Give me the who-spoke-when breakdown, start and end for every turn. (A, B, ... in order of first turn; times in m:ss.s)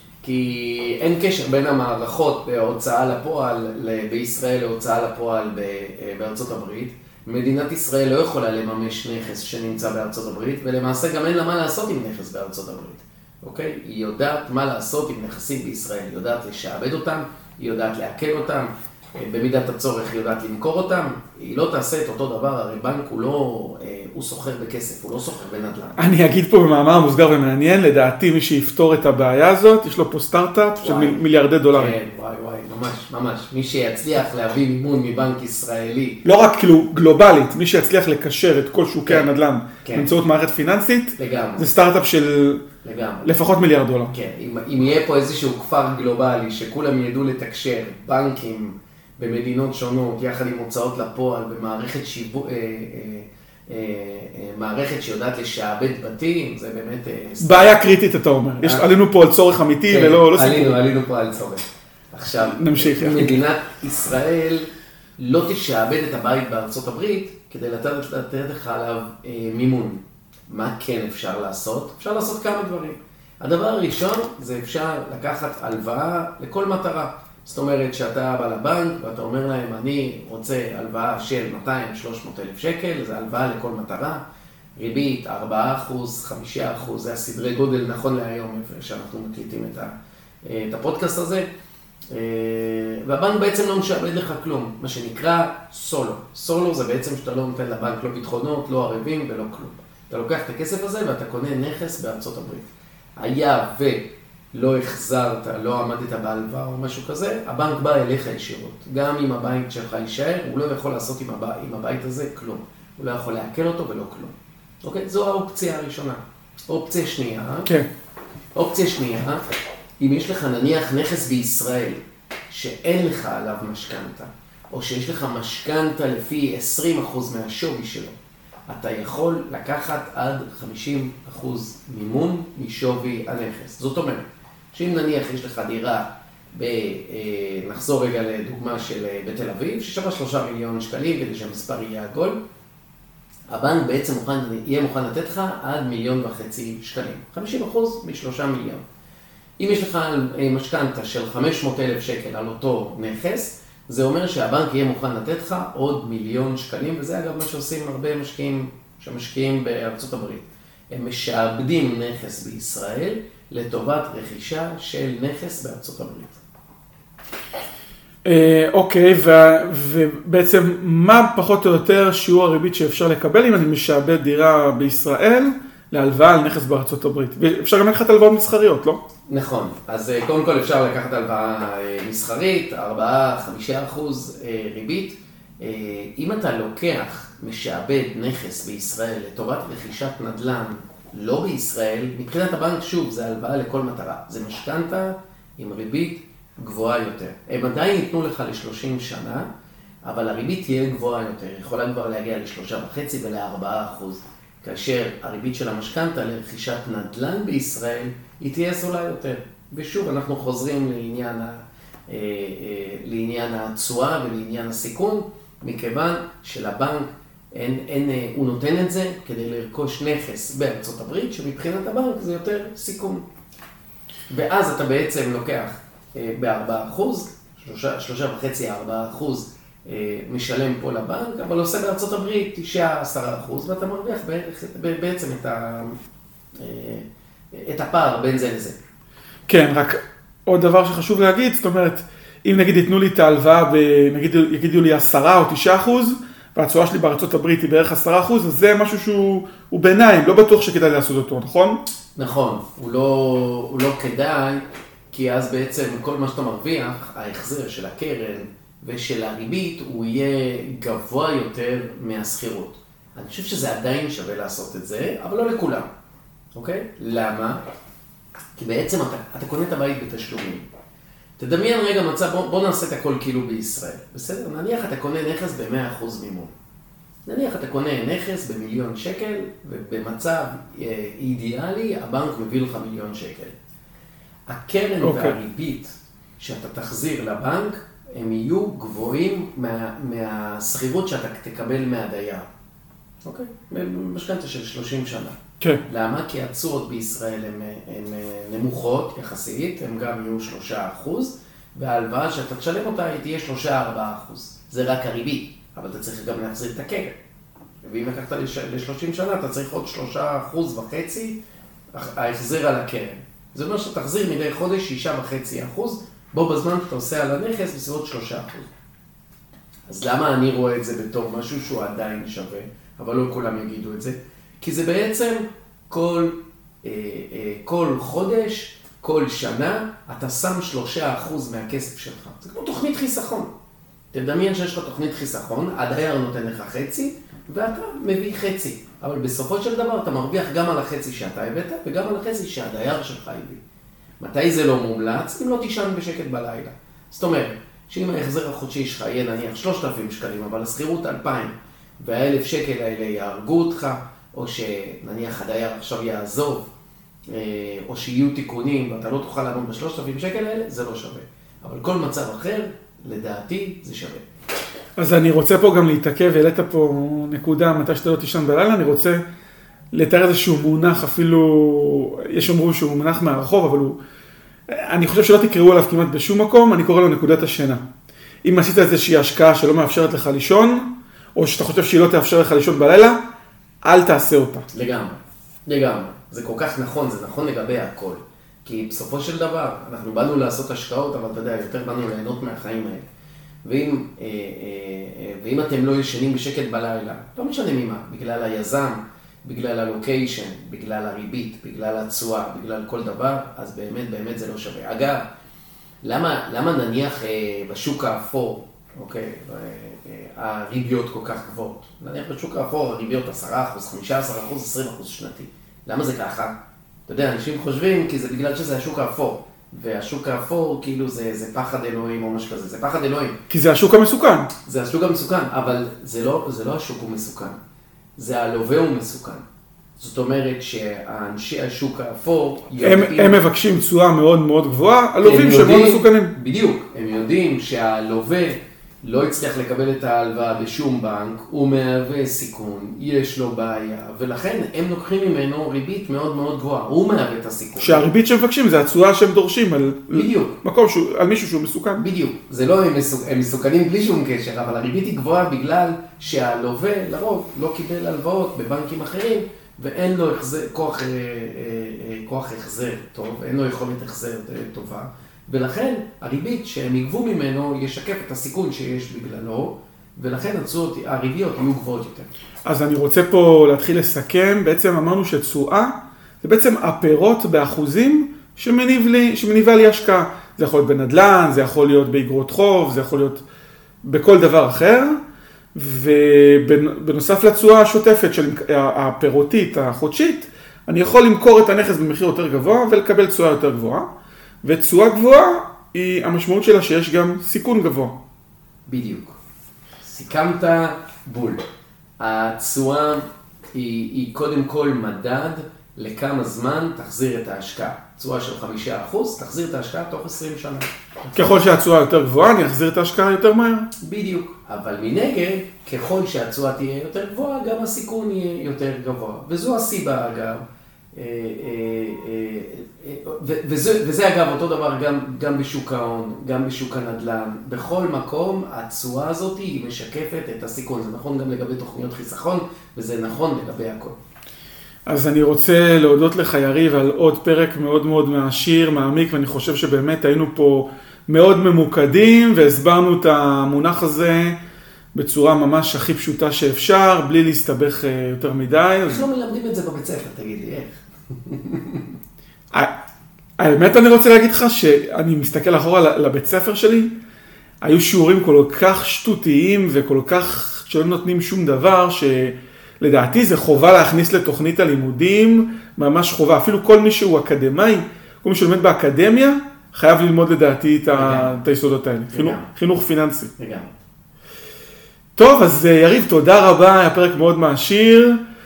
0:00.2-0:26.0 A
0:26.0-0:32.0 B
0:30.8-0:31.2 A
0:31.7-0:36.2 A
0:36.2-0:42.6 B
0:39.8-0:40.1 A
0:41.2-0:41.7 A
0:42.8-0:43.3 A
0:43.2-0:44.1 B
0:44.1-0:57.8 A
0:57.4-1:00.8 B
0:58.6-0:58.9 A
0:59.9-1:24.2 A
1:02.5-1:03.4 B
1:24.8-1:29.9 A
1:30.4-1:31.5 A
1:32.1-1:42.7 A
1:43.2-1:57.7 A
1:58.6-1:59.4 A
2:00.0-2:08.2 A
2:08.7-2:22.4 A
2:23.5-2:28.8 A
2:29.6-2:46.4 A
2:48.2-2:59.0 B
2:59.3-3:19.5 A
3:20.0-3:43.2 A
3:44.3-3:56.0 A
3:56.6-3:58.8 A
3:59.5-4:11.8 B
4:12.2-4:25.9 A
4:26.6-4:27.7 A
4:28.6-4:30.7 A
4:31.4-4:36.5 A
4:37.3-4:43.5 A
4:44.5-4:52.5 A
4:45.0-4:45.4 B
4:53.2-5:07.2 A
5:07.8-5:11.4 A
5:11.9-5:18.7 A
5:19.9-5:33.5 A
5:34.1-5:43.6 A
5:44.2-5:56.7 A
5:57.3-6:04.2 A
6:05.0-6:09.2 B
6:09.9-6:14.0 B
6:14.7-6:17.8 B
6:18.4-6:23.2 B
6:23.8-6:24.7 B
6:24.7-6:33.0 A
6:33.6-6:45.2 A
6:46.0-6:56.6 A
6:57.1-7:03.4 A
7:03.5-7:04.5 B
7:04.7-7:07.6 A
7:08.2-7:09.4 A
7:10.0-7:13.4 A
7:12.8-7:16.3 B
7:15.2-7:28.1 A
7:27.8-7:32.0 B
7:30.1-7:30.6 A
7:32.0-7:52.3 A
7:52.6-8:03.4 B
8:04.0-8:05.2 B
8:05.7-8:14.1 B
8:14.6-8:18.2 B
8:18.9-8:19.4 A
8:20.0-8:21.6 A
8:22.2-8:31.4 A
8:31.3-8:33.9 B
8:34.0-8:40.6 A
8:41.1-8:54.2 A
8:55.1-9:04.6 B
9:05.1-9:09.2 B
9:09.1-9:12.1 A
9:13.6-9:17.1 B
9:17.8-9:33.5 B
9:31.1-9:31.6 A
9:32.3-9:32.7 A
9:33.6-9:33.9 A
9:35.4-9:38.4 B